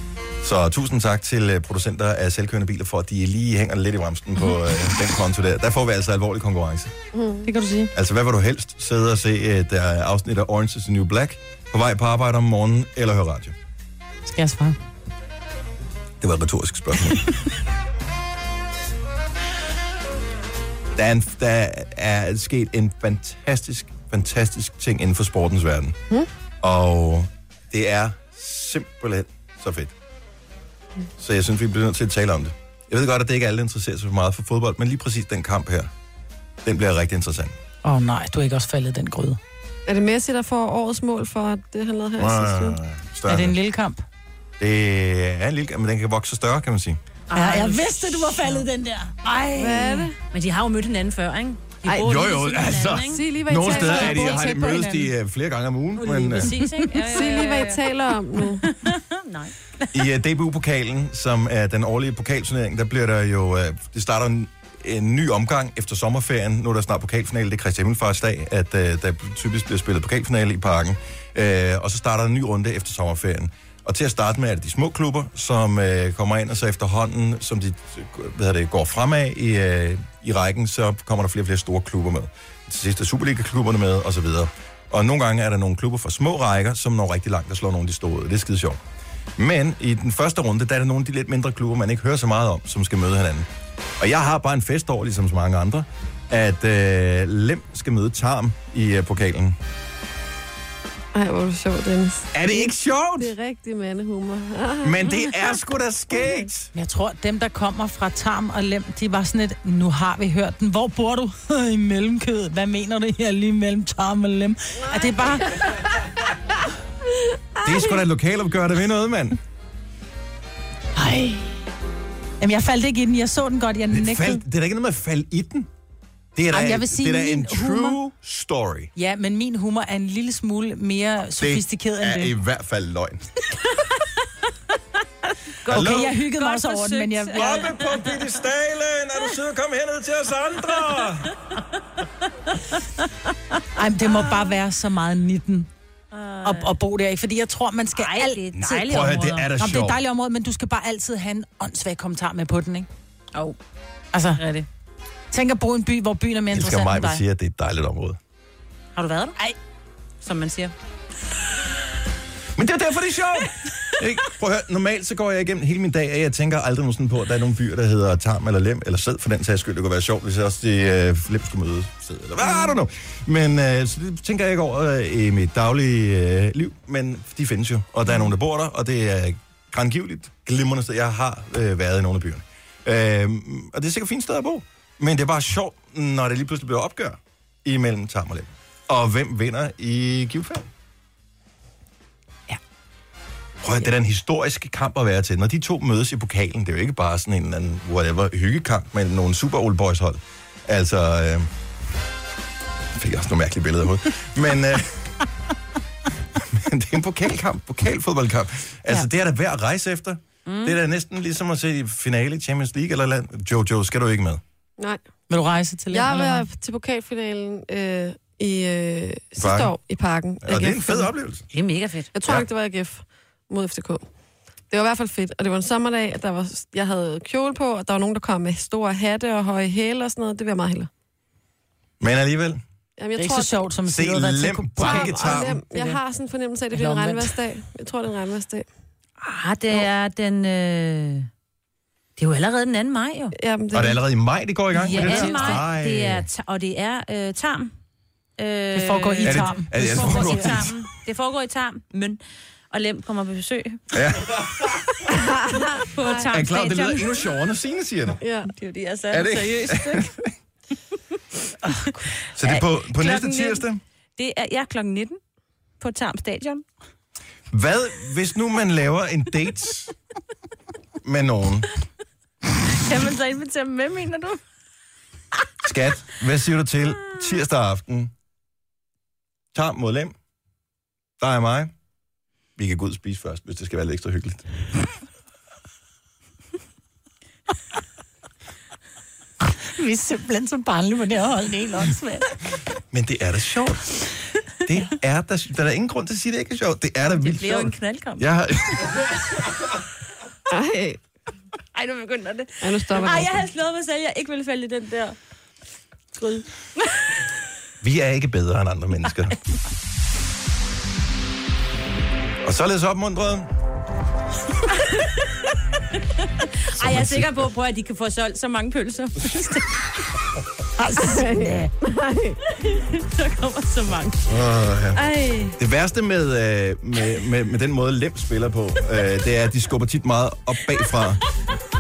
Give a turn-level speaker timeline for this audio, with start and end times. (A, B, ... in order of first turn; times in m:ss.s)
0:00.4-0:06.9 A
0:07.1-0:07.5 B
0:07.4-0:07.9 C
0:07.9-0:13.5 A
0:14.3-0:14.8 C
0:16.2-0:17.3 A
0:20.9-0:26.0 A
0:26.6-0:29.9 A
0:31.2-0:35.9 A
0:36.6-0:37.6 A
0:37.8-0:39.4 C
0:39.9-0:42.8 B
0:42.2-0:43.6 A
0:43.3-0:44.0 C
0:44.6-0:47.0 A
0:47.3-0:48.6 D
0:47.3-0:50.0 C
0:49.4-0:53.2 D
0:49.6-0:50.1 B
0:51.9-0:56.5 A
0:53.0-0:54.5 B
0:53.6-0:55.1 C
0:56.0-0:57.8 D
0:56.4-0:56.8 C
0:57.1-0:58.7 B
0:58.6-0:59.9 D
0:59.9-1:28.8 A
1:29.4-1:33.5 A
1:34.0-1:39.6 A
1:41.1-1:45.2 B
1:42.3-1:43.3 A
1:44.8-1:46.7 A
1:46.7-1:55.8 C
1:57.6-1:59.4 A
2:00.9-2:01.5 C
2:02.4-2:04.4 C
2:03.9-2:05.7 A
2:06.3-2:08.9 A
2:06.5-2:08.0 C
2:09.0-2:12.3 C
2:11.4-2:13.5 A
2:15.6-2:18.1 D
2:15.6-2:17.7 C
2:15.7-2:16.1 A
2:17.3-2:21.3 A
2:23.7-2:25.7 C
2:24.0-2:24.6 D
2:26.1-2:26.7 D
2:26.4-2:28.9 C
2:27.9-2:29.5 D
2:28.6-2:30.0 A
2:29.6-2:32.9 C
2:34.1-2:34.4 C
2:34.4-2:34.7 D
2:35.3-2:37.2 C
2:36.5-2:38.2 A
2:38.9-2:39.4 D
2:40.2-2:40.7 D
2:42.5-3:10.7 A
3:13.6-3:21.5 A
3:22.9-3:25.2 A
3:26.4-3:34.4 A
3:30.4-3:30.8 D
3:35.3-3:36.4 C
3:35.9-3:41.1 B
3:39.4-3:39.7 A
3:40.4-3:41.5 A
3:41.5-3:42.1 D
3:42.1-3:44.0 B
3:44.7-3:50.9 B
3:52.0-3:52.6 A
3:53.0-3:53.6 B
3:53.2-3:56.0 C
3:53.8-3:55.6 A
3:54.8-3:58.6 B
3:56.7-3:57.3 C
3:59.2-4:01.3 D
4:02.2-4:03.3 D
4:03.3-4:04.0 B
4:03.7-4:06.3 A
4:04.8-4:07.7 D
4:04.8-4:05.6 C
4:08.4-4:12.2 D
4:08.7-4:10.6 C
4:09.2-4:10.8 A
4:12.7-4:13.8 D
4:13.9-4:14.9 A
4:15.1-4:16.2 B
4:15.7-4:17.1 D
4:16.3-4:18.2 A
4:18.2-4:18.5 B
4:18.5-4:20.1 D
4:19.1-4:20.2 A
4:21.8-4:23.6 D
4:22.3-4:23.8 A
4:24.2-4:25.2 D
4:25.8-4:26.6 D
4:27.5-4:29.9 A
4:31.0-4:31.7 A
4:32.7-4:34.4 D
4:35.6-4:38.1 A
4:39.5-4:40.1 A
4:41.2-4:41.7 A
4:42.6-4:44.4 A
4:49.8-4:52.0 C
4:51.8-4:52.2 D
4:52.9-4:53.9 A
4:54.6-4:59.1 A
4:57.1-4:58.3 D
5:00.5-5:01.0 B
5:01.7-5:05.2 D
5:02.6-5:03.4 B
5:06.1-5:06.4 D
5:07.8-5:09.4 A
5:12.4-5:13.5 A
5:14.7-5:15.3 D
5:16.0-5:19.9 D
5:16.7-5:17.4 A
5:20.8-5:21.7 C
5:21.0-5:22.4 B
5:22.5-5:24.3 D
5:24.3-5:25.0 A
5:24.9-5:25.6 D
5:25.6-5:31.2 A